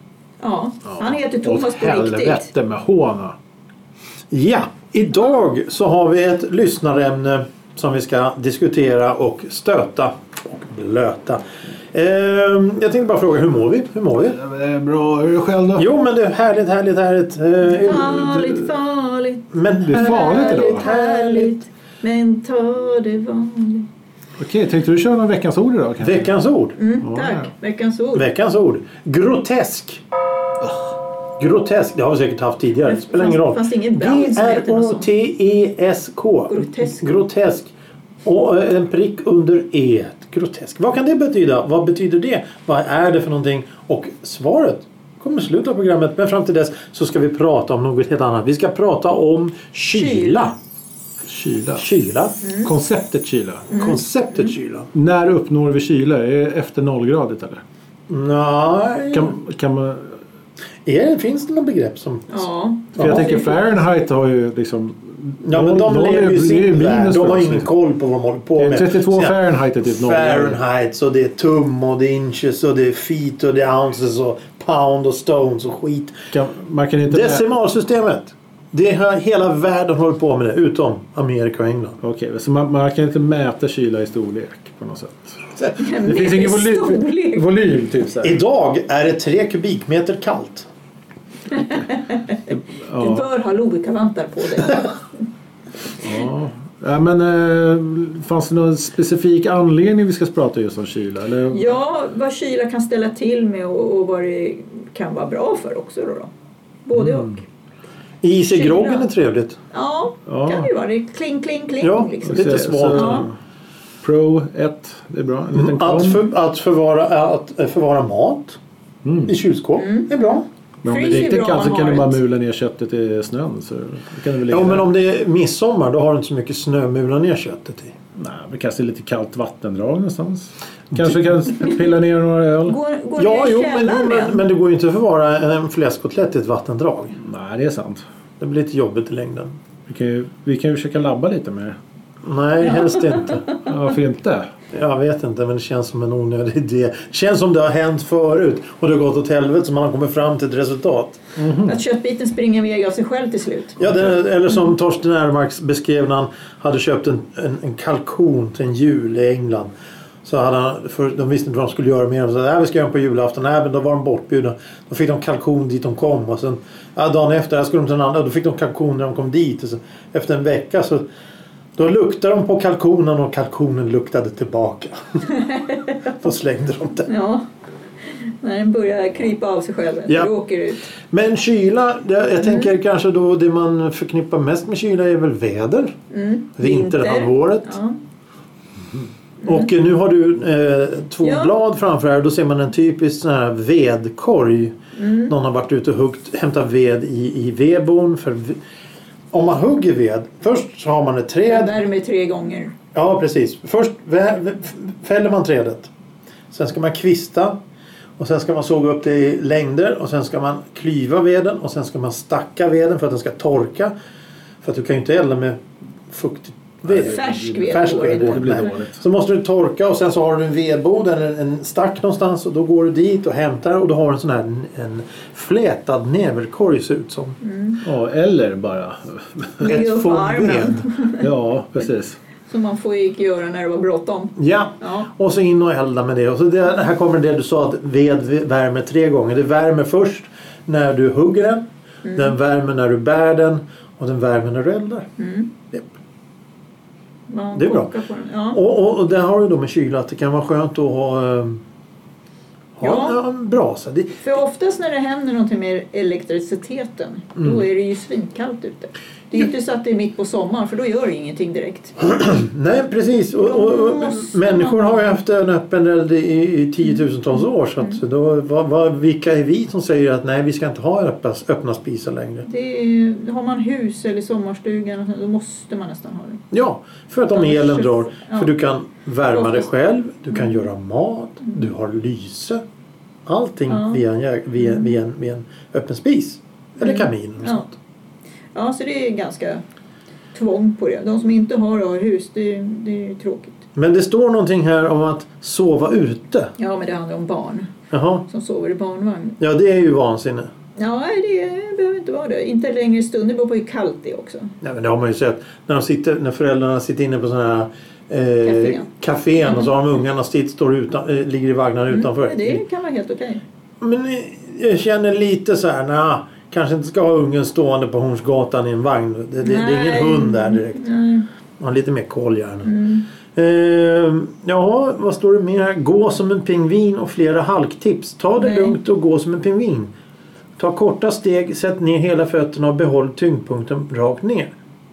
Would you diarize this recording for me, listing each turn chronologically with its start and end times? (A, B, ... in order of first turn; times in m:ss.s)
0:00.4-0:02.5 A
0:01.0-0:03.3 B
0:04.3-0:14.4 C
0:14.3-0:15.9 B
0:15.8-0:18.7 C
0:17.6-0:23.9 A
0:19.5-0:21.6 C
0:19.8-0:20.8 B
0:24.4-0:26.3 B
0:26.0-0:26.8 C
0:26.8-0:28.3 A
0:27.0-0:27.5 B
0:28.1-0:30.0 C
0:31.4-0:37.7 C
0:32.8-0:35.1 A
0:36.5-0:37.0 A
0:38.2-0:50.5 C
0:49.9-0:50.5 A
0:51.3-0:51.9 B
0:51.8-0:52.4 C
0:52.4-0:52.7 A
0:52.6-0:53.7 B
0:53.7-0:54.5 A
0:53.7-0:54.9 C
0:54.9-0:57.6 B
0:58.1-0:59.4 C
0:59.1-1:00.2 B
1:00.8-1:03.4 C
1:02.3-1:03.6 A
1:03.0-1:07.7 B
1:05.4-1:16.3 C
1:08.6-1:10.6 B
1:16.3-1:17.4 B
1:17.1-1:22.0 C
1:22.0-1:28.4 B
1:25.7-1:27.5 A
1:28.2-1:30.7 C
1:31.5-1:35.0 A
1:32.5-1:33.2 B
1:36.0-1:41.7 B
1:41.5-1:46.3 A
1:46.8-1:47.4 A
1:47.0-1:47.3 B
1:48.2-1:49.6 C
1:48.5-1:49.1 A
1:49.7-1:53.3 A
1:50.3-1:50.7 B
1:51.8-1:53.3 C
1:52.2-1:53.3 B
1:54.0-1:56.2 B
1:55.5-1:58.6 C
1:59.0-1:59.3 B
1:59.2-2:00.4 C
1:59.8-2:02.2 A
2:00.8-2:04.9 B
2:04.5-2:07.9 C
2:08.2-2:12.8 B
2:12.7-2:14.4 A
2:13.2-2:17.2 C
2:17.2-2:18.0 B
2:18.4-2:19.6 C
2:19.9-2:21.8 B
2:22.2-2:23.4 C
2:22.6-2:23.7 A
2:23.6-2:24.5 B
2:24.7-2:31.2 C
2:31.4-2:31.8 B
2:31.6-2:33.8 A
2:33.8-2:39.7 C
2:40.2-2:51.0 C
2:51.8-2:55.2 C
2:55.3-2:56.2 A
2:56.2-2:57.1 C
2:57.1-2:57.4 A
2:58.0-3:00.9 A
3:01.1-3:06.0 C
3:02.4-3:02.7 A
3:06.1-3:08.0 A
3:06.6-3:07.8 C
3:09.4-3:09.7 A
3:09.4-3:14.8 C
3:11.2-3:11.5 A
3:14.9-3:15.3 A
3:15.3-3:18.6 C
3:19.3-3:21.7 C
3:21.5-3:22.7 A
3:22.9-3:25.9 C
3:26.5-3:27.6 C
3:28.2-3:33.9 C
3:34.6-3:47.4 C
3:36.9-3:39.0 B
3:36.9-3:38.7 A
3:47.4-3:47.8 A
3:47.8-3:49.7 B
3:49.6-3:50.8 C
3:49.6-3:51.3 A
3:51.2-3:52.2 B
3:52.5-3:55.1 A
3:54.4-4:05.1 C
4:02.0-4:02.3 A
4:05.2-4:05.5 A
4:07.3-4:08.6 A
4:07.5-4:07.9 C
4:08.5-4:11.6 C
4:12.8-4:14.1 C
4:12.8-4:13.2 A
4:14.2-4:22.0 A
4:22.0-4:32.5 C
4:23.4-4:25.1 A
4:32.5-4:36.4 A
4:36.5-4:42.6 C
4:37.3-4:38.5 A
4:39.3-4:39.7 A
4:40.3-4:40.7 A
4:43.2-4:47.8 C
4:43.7-4:44.0 A
4:44.6-4:44.9 A
4:46.8-4:47.6 A
4:48.5-4:49.6 A
4:50.3-4:53.6 A
4:53.7-4:56.5 C
4:56.6-4:57.7 A
4:57.9-4:58.3 C
4:58.3-4:59.4 A
4:59.4-5:00.5 C
5:00.8-5:04.5 A
5:04.6-5:12.6 C
5:08.4-5:08.9 A
5:11.9-5:13.4 A
5:13.8-5:20.8 C
5:19.4-5:21.3 A
5:21.6-5:22.7 C
5:22.6-5:23.0 A
5:23.3-5:29.9 C
5:28.4-5:28.8 A
5:30.6-5:34.5 C